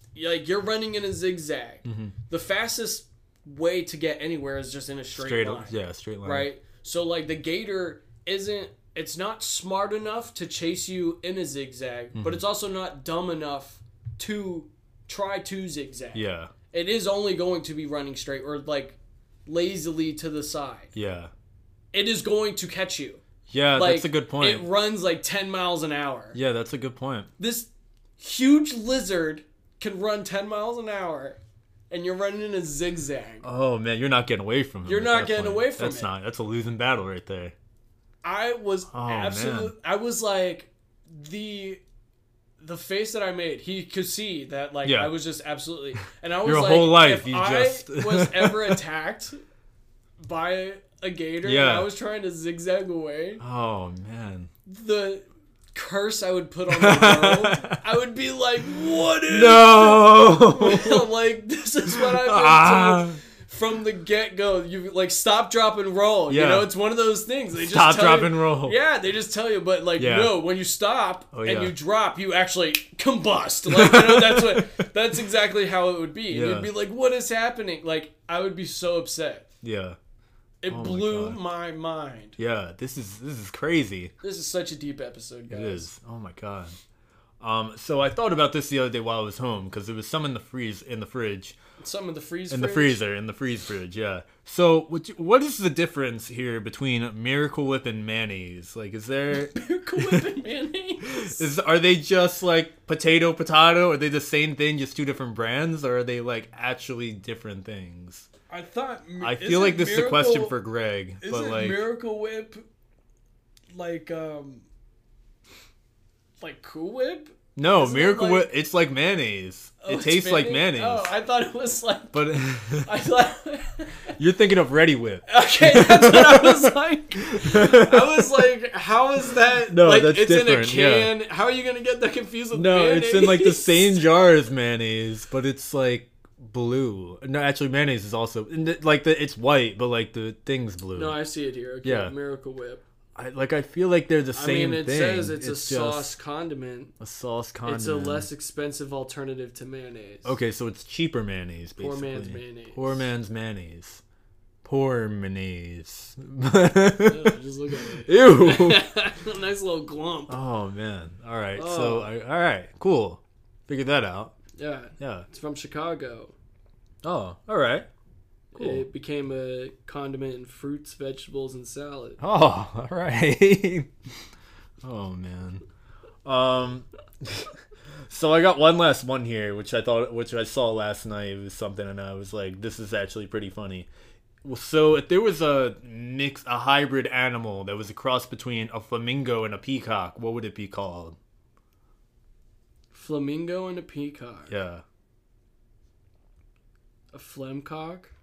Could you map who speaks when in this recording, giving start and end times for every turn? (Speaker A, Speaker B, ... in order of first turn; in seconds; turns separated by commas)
Speaker A: 0.1-20.9, Speaker B: 1.8-2.1, Speaker B: 5.1-6.5, Speaker B: 12.1-12.4, Speaker B: 16.1-16.5, Speaker B: 20.9-21.3, Speaker A: 21.9-23.2, Speaker B: 23.5-24.7, Speaker A: 23.7-26.4, Speaker B: 26.3-27.3, Speaker A: 27.4-31.4, Speaker A: 31.9-33.5, Speaker B: 33.4-37.5, Speaker A: 34.9-36.1, Speaker A: 38.2-41.8, Speaker B: 38.9-39.7, Speaker A: 42.6-49.4, Speaker B: 44.8-45.1, Speaker B: 46.4-48.8, Speaker A: 50.2-53.4, Speaker B: 51.4-51.9, Speaker B: 53.4-54.5, Speaker A: 54.6-79.5, Speaker B: 56.7-57.8, Speaker B: 59.3-61.0, Speaker B: 61.9-63.2, Speaker B: 66.3-66.7, Speaker B: 67.6-68.8, Speaker B: 70.0-70.4, Speaker B: 71.3-71.7, Speaker B: 73.7-74.6, Speaker B: 76.3-76.7, Speaker B: 79.6-80.0, Speaker A: 80.6-82.4, Speaker B: 80.7-81.4, Speaker B: 82.4-84.1, Speaker A: 84.2-85.9, Speaker B: 85.5-86.8, Speaker B: 87.4-91.5, Speaker A: 91.8-93.0, Speaker B: 92.5-100.2, Speaker A: 99.3-101.4, Speaker B: 101.1-108.3, Speaker A: 108.5-110.6, Speaker B: 109.2-111.8, Speaker A: 111.2-112.6, Speaker A: 113.7-114.6, Speaker A: 116.4-118.5, Speaker B: 117.5-121.1, Speaker A: 119.8-124.1, Speaker B: 122.1-122.9, Speaker B: 124.2-126.7, Speaker A: 125.3-134.1, Speaker B: 127.3-128.4, Speaker B: 129.7-131.1, Speaker B: 132.5-141.2, Speaker A: 140.9-142.8, Speaker B: 141.8-142.1, Speaker B: 143.2-146.2, Speaker A: 144.3-146.9, Speaker B: 147.0-148.3, Speaker A: 147.7-150.3, Speaker B: 150.2-154.0, Speaker A: 151.8-153.1, Speaker B: 154.6-157.3, Speaker A: 157.1-160.3, Speaker B: 158.0-158.8, Speaker B: 160.3-164.3, Speaker A: 161.5-162.1, Speaker A: 164.6-166.3, Speaker B: 165.0-165.2, Speaker B: 167.0-167.9, Speaker A: 168.5-172.2, Speaker B: 168.6-168.8, Speaker B: 172.2-173.9, Speaker B: 174.8-175.6, Speaker B: 176.2-177.5, Speaker B: 178.1-183.9, Speaker B: 184.4-191.2, Speaker A: 192.9-194.5, Speaker B: 194.5-194.8, Speaker A: 197.1-198.1